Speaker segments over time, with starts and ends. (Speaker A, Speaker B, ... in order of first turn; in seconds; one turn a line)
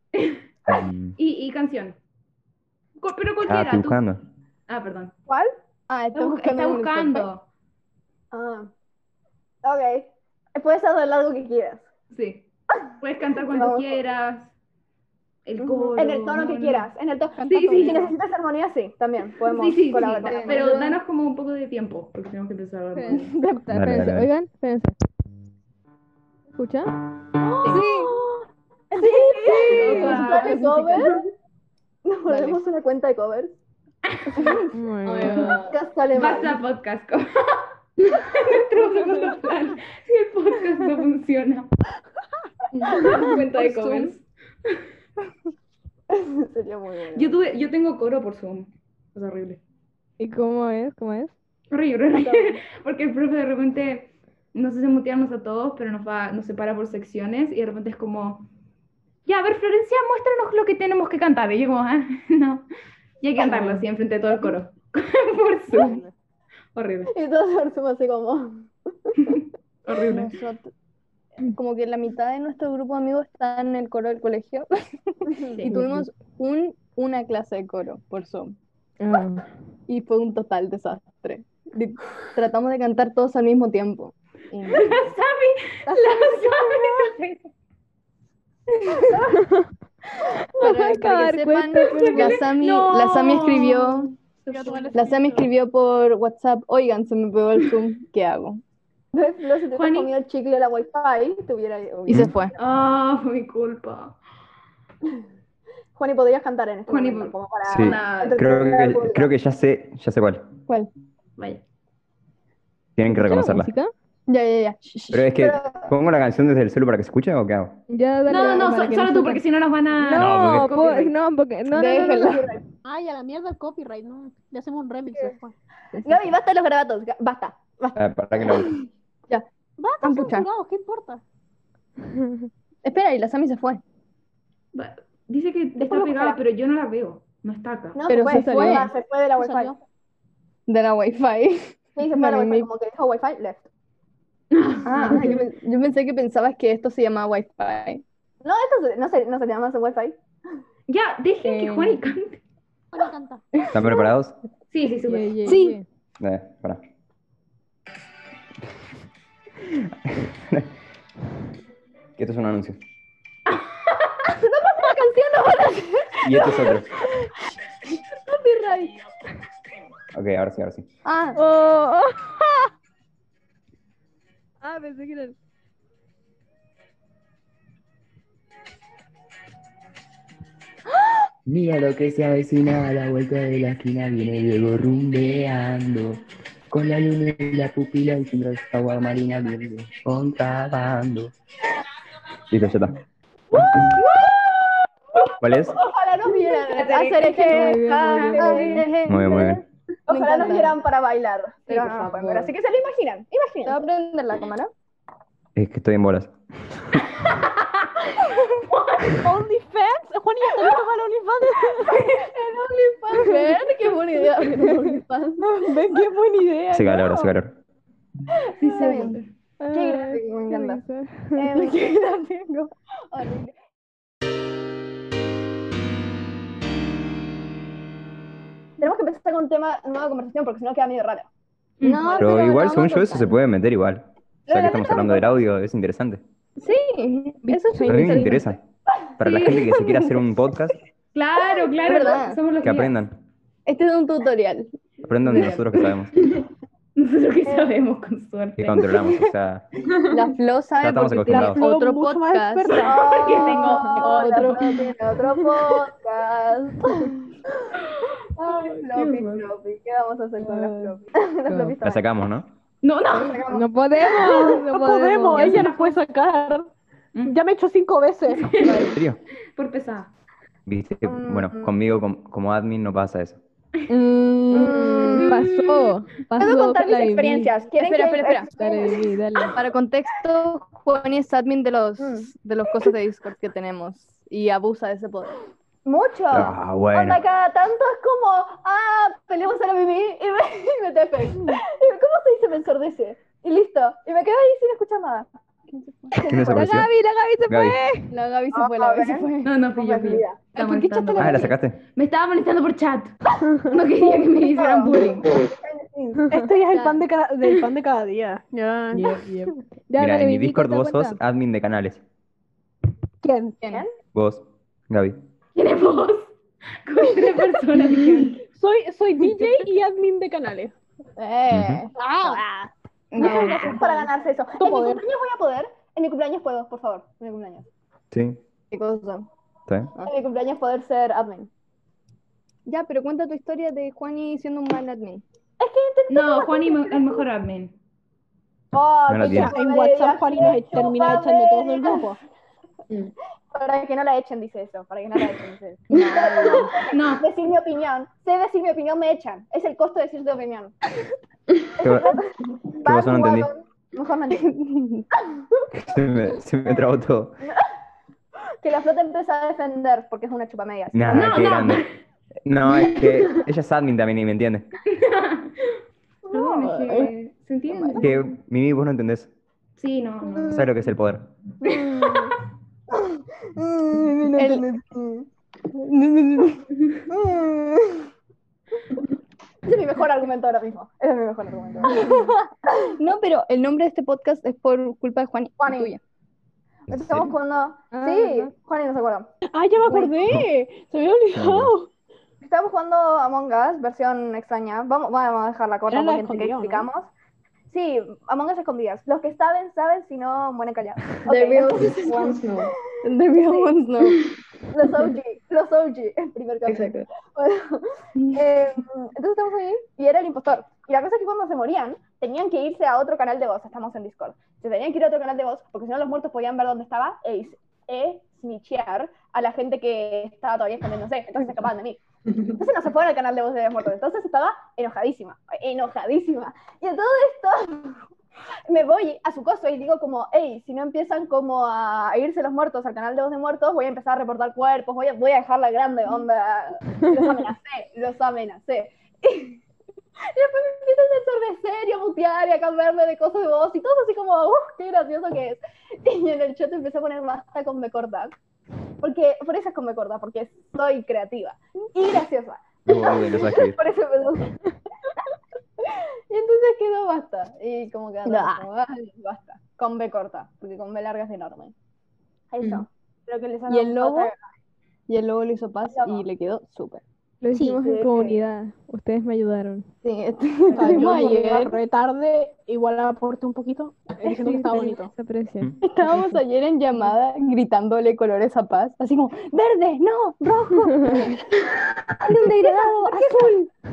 Speaker A: 0.7-1.1
Speaker B: 1.2-2.0
Speaker B: 3.0-4.0
Speaker A: 3.4-4.2
Speaker B: 4.7-5.1
Speaker C: 5.3-5.5
Speaker D: 5.9-7.3
Speaker B: 6.1-7.5
Speaker C: 8.3-8.7
Speaker C: 9.6-11.8
Speaker B: 12.1-12.4
Speaker B: 13.0-14.5
Speaker C: 13.5-14.0
Speaker B: 15.4-16.9
Speaker C: 15.6-20.9
Speaker B: 17.4-18.1
Speaker D: 17.5-17.9
Speaker B: 19.5-23.3
Speaker D: 20.0-20.9
Speaker E: 22.9-25.0
Speaker A: 23.7-24.3
Speaker E: 26.5-27.0
Speaker B: 27.4-27.9
Speaker C: 27.6-28.1
Speaker D: 27.6-28.1
Speaker C: 28.9-31.2
Speaker D: 29.1-31.0
Speaker B: 29.2-31.0
Speaker C: 32.0-33.5
Speaker D: 32.3-32.6
Speaker B: 34.1-34.6
Speaker E: 34.7-35.7
Speaker D: 35.1-35.7
Speaker B: 35.2-35.5
Speaker C: 35.6-36.6
Speaker B: 36.1-41.7
Speaker B: 42.9-44.8
Speaker D: 43.5-44.1
Speaker C: 46.1-47.3
Speaker B: 47.1-49.6
Speaker E: 50.2-51.3
Speaker B: 51.7-58.5
Speaker C: 52.1-52.6
Speaker B: 59.2-62.6
Speaker B: 63.2-66.0
Speaker B: 66.7-67.1
Speaker C: 67.1-68.7
Speaker B: 69.2-70.3
Speaker D: 69.9-70.7
Speaker D: 71.5-78.5
Speaker C: 75.3-75.6
Speaker E: 75.7-76.0
Speaker E: 79.0-79.4
Speaker D: 79.9-84.9
Speaker B: 84.7-87.5
Speaker E: 89.4-89.7
Speaker E: 90.5-92.4
Speaker D: 90.6-94.1
Speaker B: 91.9-94.9
Speaker F: 94.5-95.5
Speaker D: 94.9-98.6
Speaker C: 99.1-102.2
Speaker B: 99.7-100.1
Speaker D: 102.1-102.5
Speaker B: 102.6-104.2
Speaker C: 105.9-109.3
Speaker B: 106.9-108.4
Speaker A: 107.7-110.5
Speaker B: 111.4-111.6
Speaker A: 113.0-113.7
Speaker E: 113.1-113.9
Speaker D: 114.3-115.3
Speaker A: 115.1-117.8
Speaker C: 115.3-115.9
Speaker E: 117.9-119.4
Speaker B: 118.2-121.1
Speaker E: 120.0-122.4
Speaker A: 120.2-120.9
Speaker D: 121.7-122.5
Speaker C: 122.0-122.6
Speaker F: 122.8-125.5
Speaker E: 125.9-126.3
Speaker C: 126.0-128.0
Speaker A: 128.0-128.8
Speaker F: 129.8-131.2
Speaker D: 130.0-130.5
Speaker D: 132.8-133.8
Speaker B: 134.7-138.0
Speaker C: 135.7-136.4
Speaker C: 137.9-139.7
Speaker D: 138.1-138.9
Speaker E: 138.2-138.9
Speaker F: 139.4-139.8
Speaker D: 140.7-142.7
Speaker C: 142.0-143.7
Speaker B: 144.5-145.3
Speaker D: 144.8-148.0
Speaker C: 145.0-145.3
Speaker C: 148.4-150.2
Speaker B: 150.9-152.4
Speaker D: 151.4-152.0
Speaker F: 152.9-153.4
Speaker A: 153.7-154.3
Speaker B: 154.7-155.5
Speaker E: 155.1-155.8
Speaker D: 155.4-155.8
Speaker A: 156.2-156.8
Speaker A: 160.1-160.7
Speaker A: 162.2-162.8
Speaker C: 164.3-166.8
Speaker A: 166.2-166.9
Speaker C: 168.2-168.9
Speaker A: 170.1-170.8
Speaker D: 171.0-171.4
Speaker E: 171.3-172.6
Speaker E: 174.6-175.3
Speaker G: 181.5-186.0
Speaker A: 181.5-183.0
Speaker G: 186.7-191.3
Speaker A: 187.6-189.3
Speaker A: 190.3-191.1
Speaker A: 192.5-192.9
Speaker A: 195.4-195.8
Speaker C: 195.5-198.9
Speaker B: 196.5-198.8
Speaker E: 197.5-198.9
Speaker D: 198.4-200.8
Speaker A: 199.1-199.6
Speaker C: 200.1-203.8
Speaker B: 201.7-202.5
Speaker D: 203.6-204.7
Speaker A: 205.6-207.0
Speaker B: 207.2-209.2
Speaker F: 209.2-211.9
Speaker C: 211.8-215.4
Speaker D: 213.1-217.3
Speaker A: 216.7-217.5
Speaker B: 218.6-219.3
Speaker D: 218.6-219.2
Speaker C: 218.8-219.1
Speaker E: 219.6-221.5
Speaker C: 219.7-220.8
Speaker C: 221.3-222.0
Speaker D: 221.5-222.7
Speaker C: 223.1-223.5
Speaker C: 228.8-231.3
Speaker B: 231.8-232.2
Speaker D: 231.8-233.3
Speaker C: 232.1-232.7
Speaker A: 232.2-236.2
Speaker C: 234.5-235.2
Speaker D: 236.6-238.4
Speaker E: 237.4-238.4
Speaker A: 237.8-238.6
Speaker A: 239.2-240.8
Speaker B: 239.2-239.6
Speaker B: 241.1-243.0
Speaker D: 241.8-242.4
Speaker A: 242.6-243.1
Speaker D: 243.7-244.7
Speaker A: 245.0-246.1
Speaker D: 245.3-245.6
Speaker B: 246.9-248.8
Speaker A: 248.6-249.7
Speaker D: 250.1-252.9
Speaker A: 250.8-251.7
Speaker F: 251.2-253.1
Speaker B: 252.7-254.6
Speaker C: 252.8-257.1
Speaker D: 253.4-256.0
Speaker C: 258.4-260.3
Speaker D: 258.5-261.1
Speaker C: 261.1-262.0
Speaker E: 261.5-261.8
Speaker A: 261.8-262.5
Speaker B: 262.8-263.4
Speaker C: 263.1-263.7
Speaker E: 263.5-265.7
Speaker F: 264.0-266.7
Speaker B: 265.3-265.9
Speaker F: 267.3-268.6
Speaker B: 268.3-269.0
Speaker A: 268.9-269.2
Speaker B: 269.6-270.1
Speaker A: 270.6-273.4
Speaker C: 271.0-271.7
Speaker D: 273.9-275.4
Speaker C: 274.5-275.4
Speaker E: 274.6-277.5
Speaker C: 276.4-279.1
Speaker D: 277.8-278.5
Speaker E: 278.5-279.6
Speaker D: 279.5-285.3
Speaker C: 282.0-282.3
Speaker C: 285.8-295.3
Speaker A: 286.3-287.2
Speaker D: 295.7-296.2
Speaker E: 296.1-298.1
Speaker A: 296.3-296.9
Speaker A: 297.5-297.8
Speaker D: 298.1-299.5
Speaker C: 298.5-300.4
Speaker B: 299.4-305.3
Speaker D: 300.5-301.6
Speaker A: 301.1-301.8
Speaker C: 304.0-307.0
Speaker F: 306.3-309.2
Speaker E: 308.9-311.2
Speaker A: 310.0-312.0
Speaker F: 313.2-313.6
Speaker D: 313.6-313.9
Speaker A: 314.1-315.2
Speaker B: 315.5-316.3
Speaker B: 316.9-318.4
Speaker F: 318.5-320.7
Speaker D: 321.2-322.4
Speaker A: 321.5-321.8
Speaker F: 321.9-325.0
Speaker D: 323.1-323.8
Speaker C: 323.2-327.7
Speaker A: 328.1-328.4
Speaker D: 328.7-329.3
Speaker A: 329.7-329.9
Speaker C: 330.0-331.5
Speaker D: 332.6-335.2
Speaker C: 335.6-337.2
Speaker B: 336.1-337.7
Speaker C: 338.7-342.1
Speaker A: 339.1-339.5
Speaker F: 339.2-342.2
Speaker C: 343.5-350.8
Speaker D: 345.9-346.8
Speaker B: 346.9-347.2
Speaker A: 351.8-352.2
Speaker C: 351.8-354.5
Speaker A: 352.8-353.5
Speaker D: 354.4-355.0
Speaker A: 355.8-357.4
Speaker C: 358.6-361.4
Speaker A: 360.9-361.8
Speaker B: 361.1-361.9
Speaker A: 362.4-364.7
Speaker B: 364.9-365.8
Speaker B: 366.3-368.2
Speaker D: 366.3-367.1
Speaker D: 367.7-368.1
Speaker A: 368.0-369.3
Speaker B: 369.8-370.7
Speaker A: 370.5-371.3
Speaker C: 371.6-372.1
Speaker C: 373.6-375.2
Speaker D: 374.0-374.8
Speaker D: 375.7-376.6
Speaker C: 377.1-377.8
Speaker C: 379.6-382.3
Speaker D: 382.0-386.0
Speaker C: 385.6-385.9
Speaker A: 386.9-387.3
Speaker C: 386.9-389.3
Speaker E: 387.9-388.5
Speaker F: 389.5-391.9
Speaker A: 391.3-391.7
Speaker C: 392.4-397.1
Speaker F: 395.9-396.9
Speaker C: 397.7-402.4
Speaker H: 401.2-402.7
Speaker D: 403.0-404.2
Speaker C: 403.4-403.7
Speaker C: 404.7-422.0
Speaker H: 406.6-407.1
Speaker C: 422.5-428.0
Speaker C: 428.7-439.6
Speaker C: 440.3-448.3
Speaker C: 449.0-454.6
Speaker A: 452.9-453.8
Speaker C: 455.8-461.7
Speaker D: 458.2-458.7
Speaker C: 462.5-464.4
Speaker D: 463.7-464.3
Speaker D: 465.1-467.0
Speaker C: 465.9-466.2
Speaker E: 467.4-469.9
Speaker C: 467.6-468.4
Speaker D: 470.0-471.8
Speaker F: 470.7-475.1
Speaker C: 470.9-471.2
Speaker E: 474.2-475.7
Speaker D: 475.8-479.6
Speaker C: 479.5-481.4
Speaker C: 482.2-483.6
Speaker D: 482.2-483.6